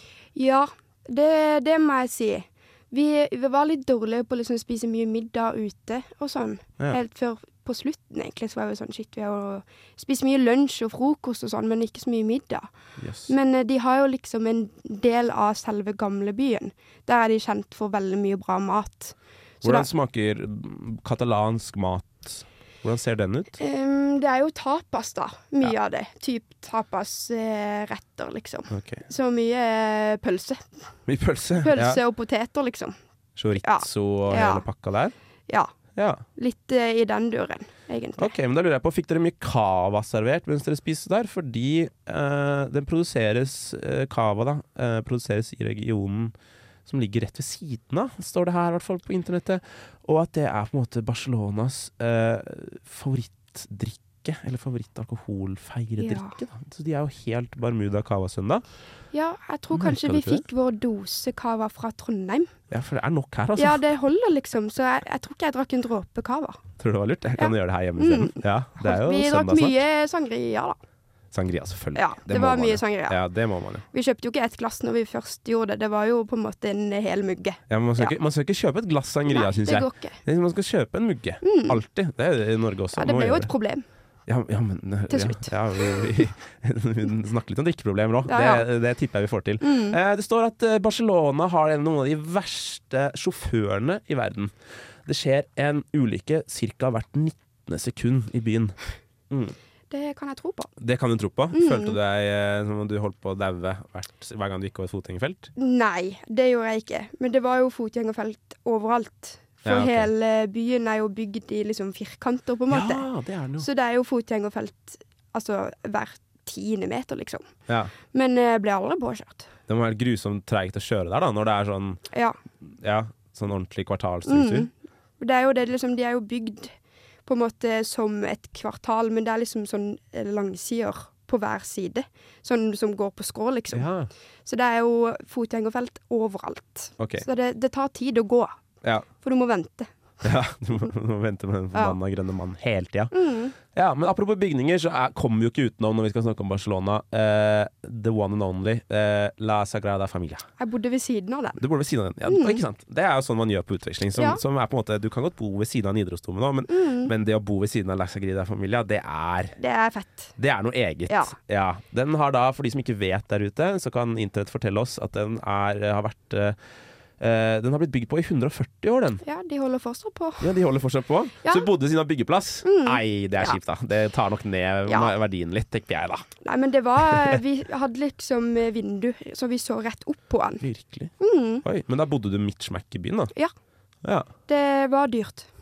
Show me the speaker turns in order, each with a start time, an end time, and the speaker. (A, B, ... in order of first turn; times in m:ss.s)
0:00.4-0:12.7 A
0:13.0-0:13.3 B
0:13.3-0:19.9 A
0:19.6-0:23.6 B
0:23.6-0:30.7 A
0:28.7-0:29.0 B
0:31.1-0:32.0 B
0:31.6-0:33.0 A
0:33.4-0:35.1 B
0:33.6-0:34.7 A
0:36.0-0:36.2 B
0:36.4-0:38.3 A
0:38.2-0:46.4 B
0:46.9-0:58.6 B
0:56.0-0:56.4 A
0:59.1-1:02.5 A
0:59.7-1:00.4 B
1:02.7-1:03.8 B
1:03.6-1:06.6 A
1:06.8-1:09.8 B
1:07.4-1:10.8 A
1:11.3-1:13.9 B
1:12.0-1:13.2 A
1:13.9-1:18.2 A
1:17.7-1:23.5 B
1:19.3-1:20.2 A
1:21.4-1:21.8 A
1:22.9-1:23.8 A
1:24.3-1:34.5 B
1:25.1-1:26.2 A
1:28.3-1:28.7 A
1:29.6-1:30.0 A
1:35.1-1:38.8 B
1:39.3-1:39.6 B
1:39.9-1:40.7 A
1:40.8-1:45.5 B
1:41.5-1:42.0 A
1:45.6-1:53.0 A
1:49.6-1:50.1 B
1:52.7-1:53.7 B
1:53.6-1:57.4 A
1:57.7-1:57.9 B
1:58.1-1:59.5 A
1:59.7-2:02.0 B
2:02.1-2:02.4 A
2:02.6-2:04.7 B
2:04.3-2:06.7 A
2:07.3-2:13.9 A
2:13.7-2:14.1 B
2:14.4-2:18.6 A
2:17.0-2:17.3 B
2:19.2-2:19.9 A
2:20.2-2:30.5 B
2:23.1-2:23.6 A
2:30.6-2:31.6 A
2:31.6-2:39.6 B
2:32.2-2:32.6 A
2:34.2-2:34.4 A
2:36.7-2:37.1 A
2:39.6-2:40.4 A
2:40.4-2:46.6 B
2:41.1-2:41.4 A
2:47.2-2:49.2 B
2:49.2-2:50.5 A
2:50.4-2:56.3 B
2:52.6-2:53.6 A
2:54.9-2:55.1 A
2:56.4-3:00.6 A
2:57.0-2:57.4 B
3:00.6-3:03.3 B
3:01.2-3:01.6 A
3:04.5-3:05.5 A